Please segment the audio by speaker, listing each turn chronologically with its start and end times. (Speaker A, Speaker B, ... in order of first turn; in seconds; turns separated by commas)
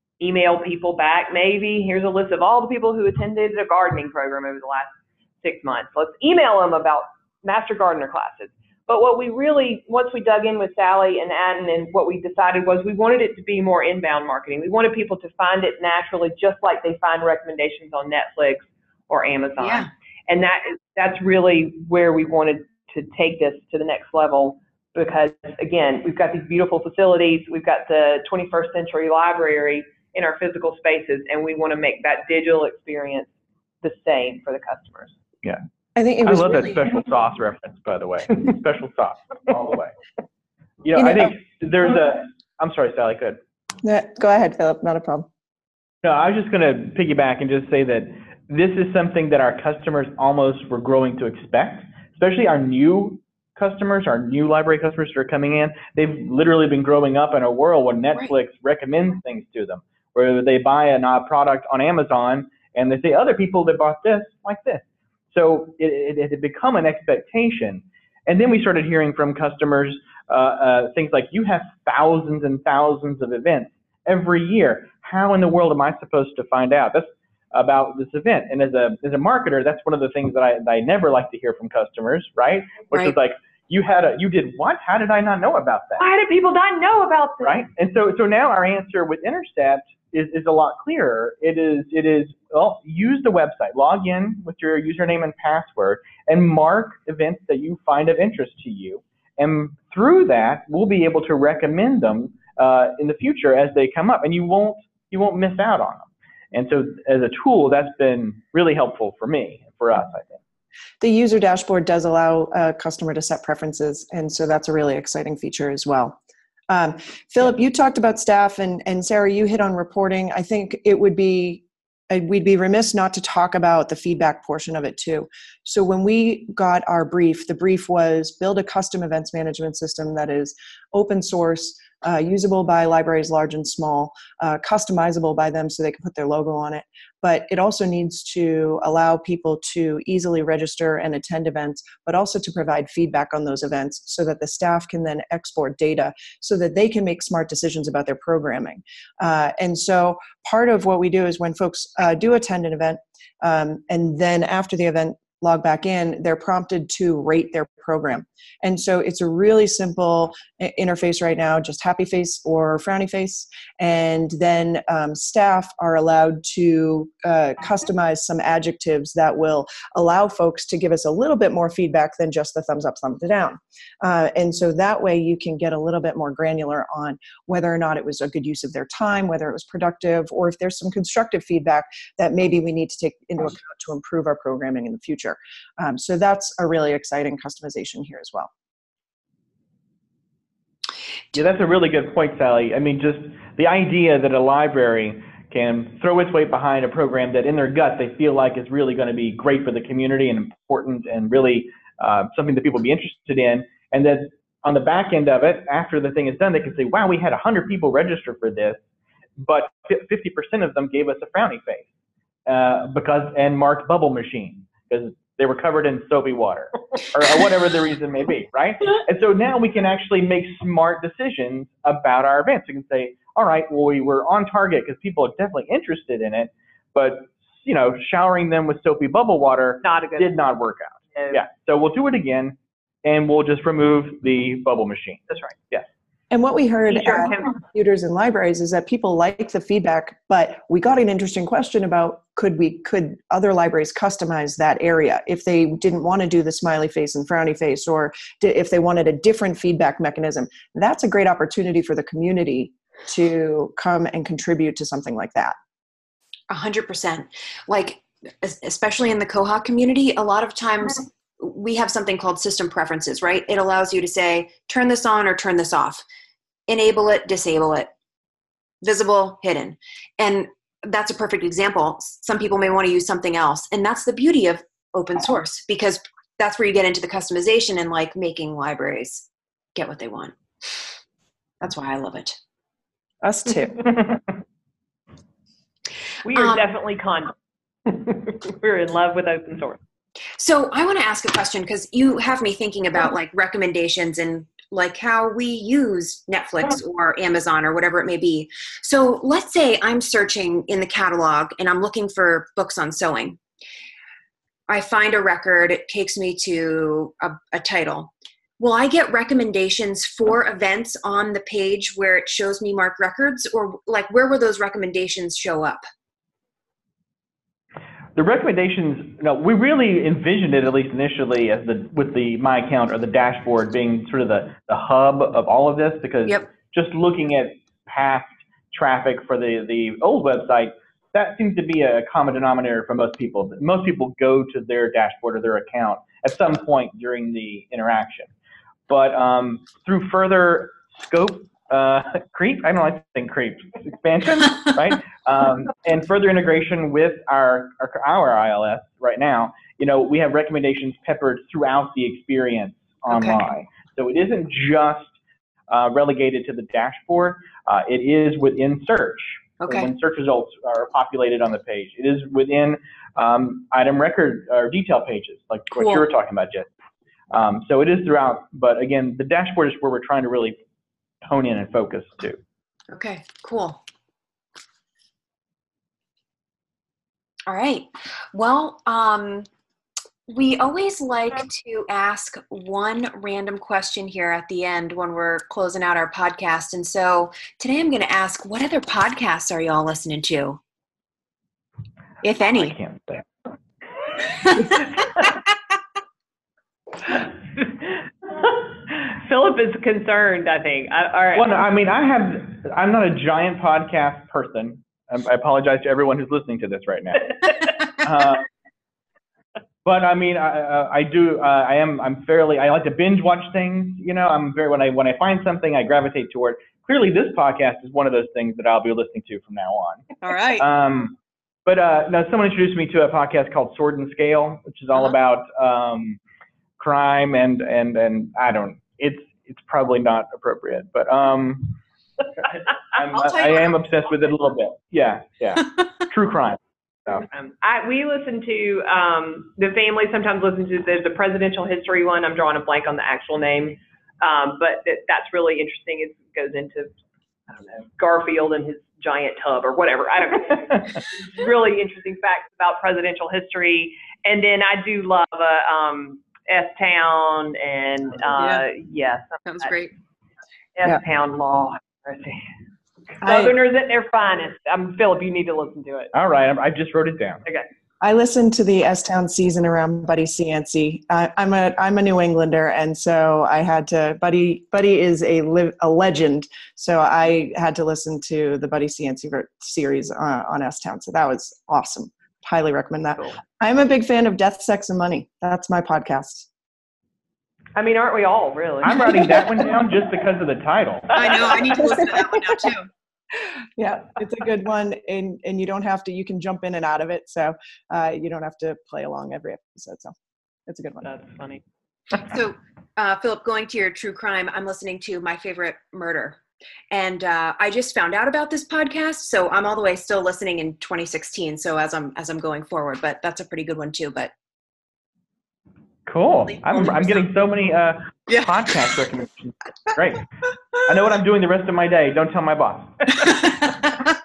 Speaker A: 0.2-35.1, Speaker B: 19.6-19.9, Speaker C: 36.0-36.8, Speaker D: 36.2-39.9, Speaker D: 40.8-43.4, Speaker C: 41.0-41.3, Speaker C: 43.8-45.3, Speaker D: 46.0-86.0, Speaker A: 86.0-87.6, Speaker D: 87.4-110.4, Speaker C: 111.0-116.2, Speaker C: 116.7-188.5, Speaker D: 191.3-208.8, Speaker D: 209.4-211.9, Speaker D: 212.5-235.9, Speaker A: 229.8-230.4, Speaker A: 231.1-231.4, Speaker C: 236.3-255.6, Speaker A: 237.1-237.4, Speaker B: 256.5-266.0, Speaker B: 266.7-267.9, Speaker B: 268.8-280.8, Speaker B: 281.6-282.4, Speaker C: 283.2-283.8, Speaker A: 286.2-287.3, Speaker A: 287.9-289.8, Speaker B: 290.4-303.4, Speaker B: 304.7-315.9, Speaker D: 318.2-338.3, Speaker D: 338.9-355.1, Speaker B: 353.1-353.4, Speaker D: 355.7-366.7, Speaker B: 359.6-359.9, Speaker B: 365.8-366.1, Speaker D: 367.3-370.6, Speaker D: 371.2-372.4, Speaker B: 372.9-373.8, Speaker B: 377.5-379.5, Speaker B: 380.3-390.6, Speaker B: 392.2-392.8, Speaker D: 392.6-393.2, Speaker A: 398.4-401.5, Speaker D: 401.4-408.5, Speaker D: 409.9-420.1, Speaker B: 420.2-420.6, Speaker D: 420.6-421.1, Speaker D: 421.7-426.2, Speaker D: 426.8-431.8, Speaker D: 432.4-437.2, Speaker A: 437.3-446.9, Speaker A: 447.5-459.7, Speaker B: 458.4-458.6, Speaker B: 459.4-459.9, Speaker A: 460.8-462.5, Speaker A: 463.2-466.1, Speaker B: 463.2-463.5, Speaker D: 466.1-467.4, Speaker C: 468.0-486.5, Speaker A: 487.8-489.5, Speaker D: 488.8-491.5, Speaker B: 491.1-492.9, Speaker C: 493.8-500.1, Speaker C: 500.7-501.1, Speaker A: 501.0-501.6, Speaker B: 502.2-506.4, Speaker B: 506.9-514.3, Speaker D: 516.1-520.3, Speaker D: 520.8-523.4